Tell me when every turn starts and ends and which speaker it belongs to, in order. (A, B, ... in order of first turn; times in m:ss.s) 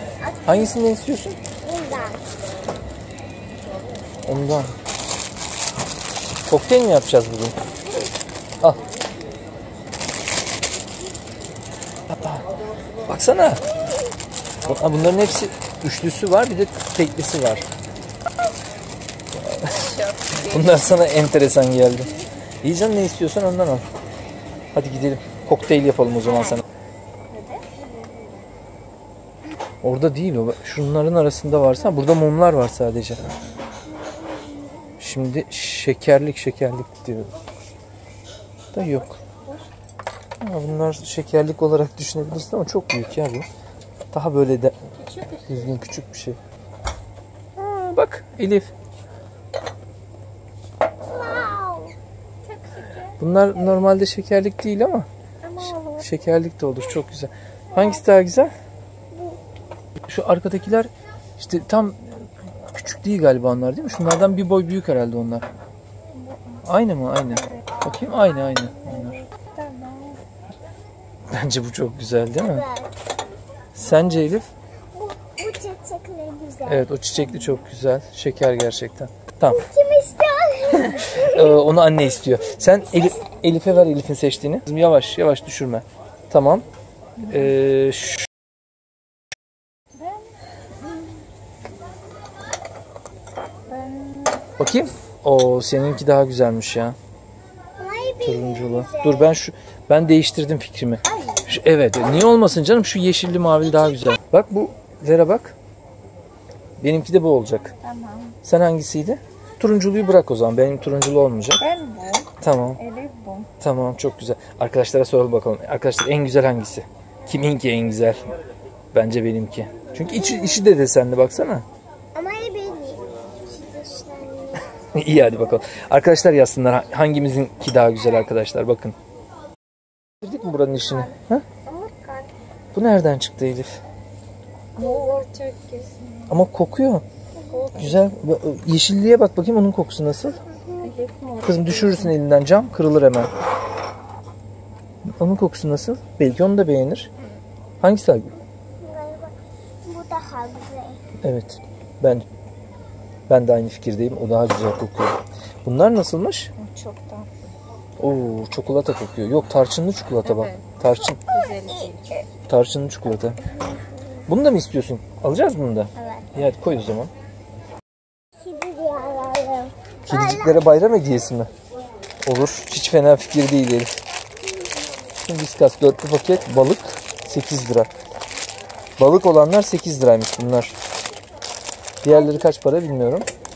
0:00.2-0:00.8 A
0:00.5-0:01.4 B
0:01.6-0:02.3 A
0:04.3-0:04.7 B
0:06.5-0:07.6 B
0:12.1-0:12.4 B
0:13.1-0:13.6 B
0:14.7-0:17.6 B
0:19.4-0:23.8 B
0:19.9-0:20.7 C
0:24.7-0:26.6 B
0:26.3-0:26.6 A
0:27.3-0:28.4 C
0:29.8-0:33.2 B
0:35.0-0:37.3 B
0:38.7-0:39.2 B
0:40.4-0:43.5 B
0:44.1-0:44.8 B
0:45.0-0:45.8 C
0:45.5-0:46.4 B
0:47.8-0:48.7 B
0:51.1-0:51.9 A
0:52.4-0:53.2 C
0:53.2-0:55.1 B
0:55.4-0:56.0 C
0:55.6-0:58.5 B
0:59.1-0:59.4 A
1:00.1-1:05.5 B
1:06.6-1:09.2 B
1:08.9-1:10.2 C
1:11.3-1:12.7 B
1:12.4-1:12.9 A
1:13.8-1:14.5 B
1:14.9-1:16.9 A
1:16.7-1:19.6 B
1:19.5-1:21.6 A
1:20.9-1:26.6 B
1:27.2-1:28.3 B
1:33.7-1:34.4 C
1:34.6-1:37.0 B
1:37.8-1:39.4 A
1:38.2-1:45.6 B
1:41.2-1:41.4 A
1:43.6-1:44.2 A
1:46.8-1:47.7 B
1:47.8-1:48.4 C
1:48.4-1:51.6 B
1:51.6-1:53.5 C
1:52.4-1:52.8 B
1:53.6-1:58.2 B
1:58.9-2:01.6 B
2:00.1-2:00.6 A
2:02.2-2:04.7 A
2:04.9-2:09.0 B
2:10.2-2:11.4 B
2:11.7-2:12.2 A
2:12.7-2:13.8 B
2:14.8-2:16.0 C
2:16.3-2:17.0 B
2:17.5-2:18.1 C
2:17.8-2:20.4 B
2:20.7-2:20.9 A
2:20.8-2:22.1 C
2:21.4-2:23.3 B
2:25.2-2:27.1 B
2:27.8-2:28.3 B
2:28.8-2:31.0 A
2:31.2-2:32.2 B
2:33.3-2:36.5 B
2:36.6-2:37.3 C
2:38.0-2:41.2 B
2:40.2-2:40.6 C
2:41.3-2:42.3 C
2:42.5-2:43.4 B
2:44.3-2:47.1 B
2:46.0-2:46.4 A
2:48.4-2:50.7 A
2:50.1-2:51.5 B
2:52.2-2:53.9 B
2:55.2-2:57.9 B
2:59.0-3:00.8 B
3:02.0-3:03.2 B
3:02.1-3:02.4 A